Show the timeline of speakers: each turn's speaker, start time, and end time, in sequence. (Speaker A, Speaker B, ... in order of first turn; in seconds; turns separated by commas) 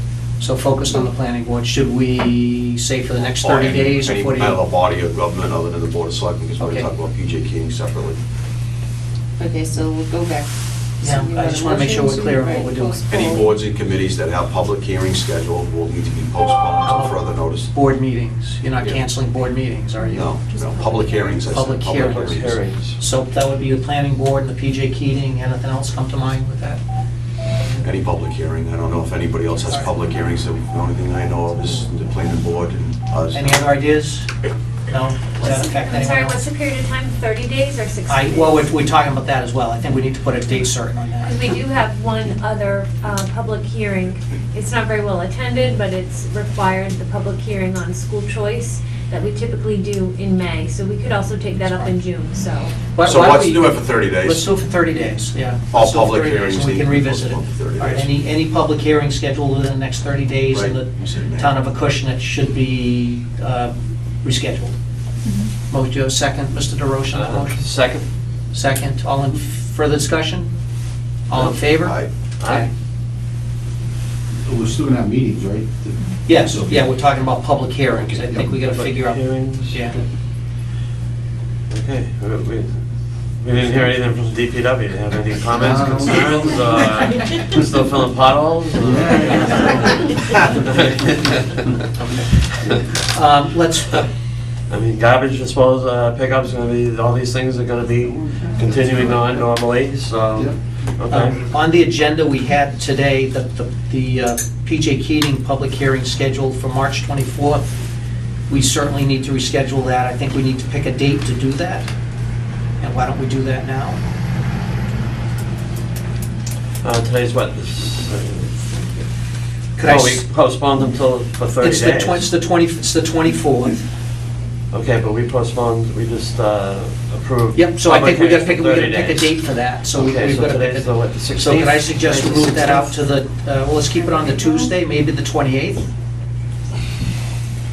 Speaker A: 0.4-4.6, Speaker B: 3.4-8.2, Speaker A: 6.6-6.9, Speaker C: 9.4-10.5, Speaker A: 11.0-13.1, Speaker C: 11.0-13.5, Speaker B: 13.1-17.7, Speaker A: 16.8-20.5, Speaker B: 20.1-22.6, Speaker A: 21.4-22.2, Speaker D: 21.9-23.0, Speaker A: 22.8-26.8, Speaker B: 27.8-33.7, Speaker A: 29.6-29.9, Speaker A: 33.3-34.3, Speaker A: 34.9-36.5, Speaker E: 35.4-38.8, Speaker A: 38.1-41.5, Speaker E: 41.2-52.7, Speaker A: 52.9-64.7, Speaker B: 53.0-54.5, Speaker B: 55.7-58.1, Speaker B: 60.5-61.6, Speaker A: 65.7-67.6, Speaker D: 67.1-68.1, Speaker A: 68.5-70.5, Speaker A: 71.3-72.7, Speaker B: 71.3-72.1, Speaker D: 72.4-72.7, Speaker F: 74.5-76.9, Speaker A: 76.2-80.0, Speaker F: 78.1-78.6, Speaker D: 78.6-80.0, Speaker D: 81.7-82.8, Speaker D: 83.4-91.7, Speaker F: 85.5-86.8, Speaker F: 88.8-90.0, Speaker A: 93.1-94.0, Speaker D: 94.7-101.4, Speaker F: 98.8-99.3, Speaker A: 101.1-107.8, Speaker A: 108.5-111.9, Speaker A: 112.8-114.0, Speaker D: 116.8-118.6, Speaker A: 119.8-120.2, Speaker D: 119.8-122.2, Speaker A: 121.6-123.8, Speaker D: 124.7-129.3, Speaker A: 127.5-135.9, Speaker D: 129.9-132.9